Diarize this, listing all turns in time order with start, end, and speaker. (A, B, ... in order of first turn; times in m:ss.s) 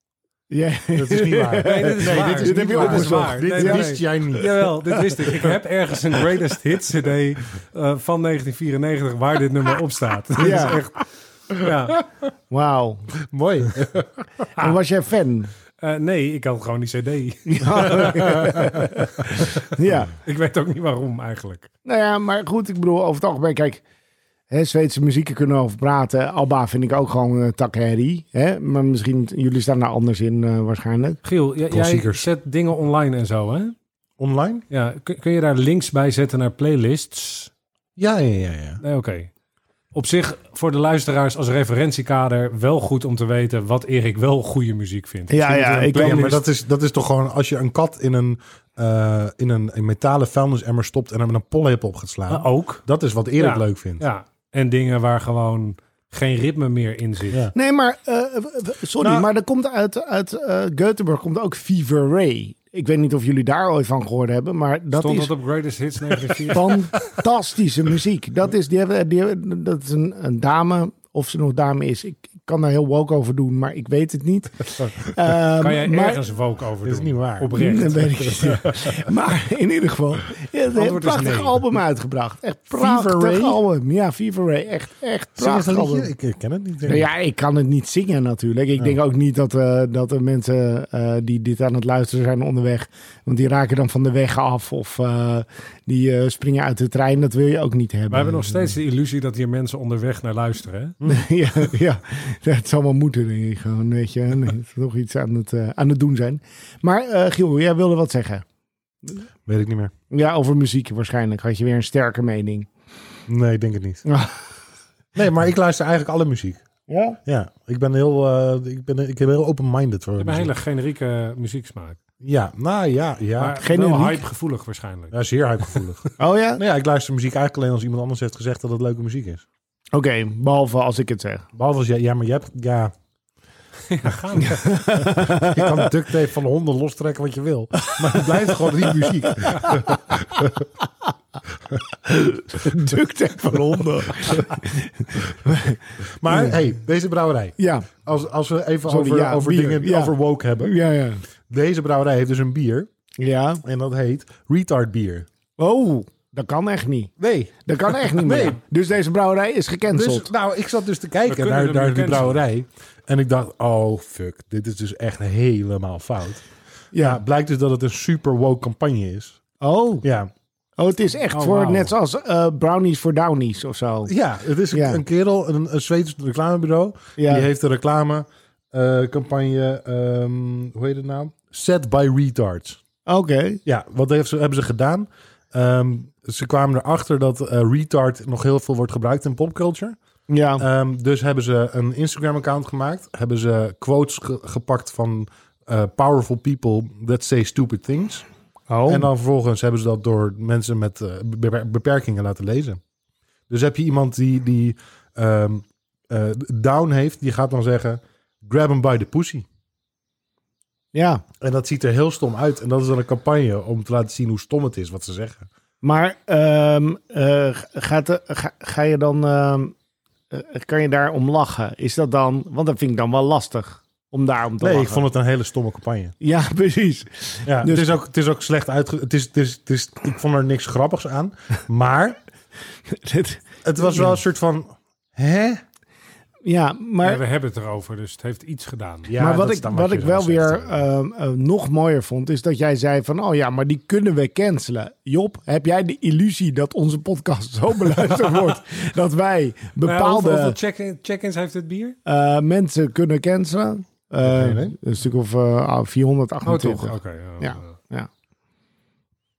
0:00.5-0:04.7 A
0:00.9-0:04.6 B
0:01.6-0:12.0 C
0:10.4-0:10.8 A
0:12.5-0:13.1 A
0:13.3-0:14.2 B
0:14.6-0:15.5 A
0:15.8-0:19.6 C
0:17.5-0:20.1 A
0:20.2-0:21.7 C
0:21.8-0:23.8 A
0:24.5-0:31.2 A
0:31.2-0:33.7 C
0:31.7-0:32.3 B
0:34.2-0:34.6 B
0:34.7-0:37.5 C
0:38.0-0:38.8 B
0:38.8-0:39.3 C
0:39.9-0:46.4 C
0:45.3-0:46.4 A
0:45.8-0:54.0 B
0:52.3-0:52.8 C
0:53.4-0:57.4 C
0:57.5-1:05.3 A
0:59.0-0:59.3 B
1:04.9-1:06.8 C
1:06.5-1:16.2 A
1:15.6-1:18.0 C
1:16.8-1:19.1 B
1:17.5-1:26.1 A
1:20.7-1:21.6 C
1:22.7-1:23.6 B
1:25.4-1:27.1 B
1:26.8-1:38.8 A
1:38.1-1:41.0 C
1:41.0-1:48.4 A
1:49.5-1:49.9 B
1:50.1-1:52.7 A
1:53.3-1:54.0 B
1:54.0-1:54.4 A
1:55.2-1:56.6 B
1:56.9-1:57.2 A
1:57.2-2:00.5 B
2:00.2-2:02.0 C
2:02.2-2:03.6 B
2:03.4-2:05.2 C
2:03.6-2:04.2 A
2:05.1-2:09.4 B
2:06.2-2:06.6 A
2:09.9-2:11.4 A
2:11.5-2:12.9 B
2:13.9-2:14.8 C
2:14.4-2:15.9 A
2:15.0-2:20.6 B
2:17.8-2:21.1 A
2:22.0-2:26.6 A
2:23.5-2:24.5 B
2:26.2-2:30.8 B
2:27.6-2:27.9 A
2:28.8-2:31.2 A
2:31.5-2:32.9 B
2:33.2-2:33.6 A
2:33.6-2:35.2 B
2:35.6-2:37.1 A
2:37.2-2:38.6 B
2:37.6-2:40.3 A
2:39.9-2:46.4 B
2:41.3-2:42.4 C
2:46.9-2:47.2 A
2:47.0-2:49.4 B
2:49.6-2:50.0 A
2:50.0-2:50.3 B
2:50.8-2:54.1 A
2:51.3-2:51.9 C
2:54.1-3:02.8 B
2:54.7-2:55.0 A
2:57.2-2:57.5 A
3:03.0-3:03.6 A
3:03.6-3:10.0 B
3:10.3-3:10.6 A
3:10.6-3:18.2 B
3:18.7-3:19.1 A
3:18.9-3:22.8 B
3:23.5-3:29.4 B
3:30.9-3:31.2 A
3:31.4-3:35.5 B
3:35.8-3:39.7 A
3:40.3-3:45.0 A
3:44.6-3:46.1 B
3:46.2-3:47.9 A
3:47.4-3:52.2 B
3:52.9-3:54.2 A
3:53.6-3:55.6 B
3:56.4-3:57.2 A
3:57.0-3:59.1 C
3:59.1-4:00.8 B
3:59.2-4:10.6 A
4:09.8-4:12.0 C
4:12.0-4:18.1 A
4:14.2-4:14.8 B
4:16.4-4:17.8 C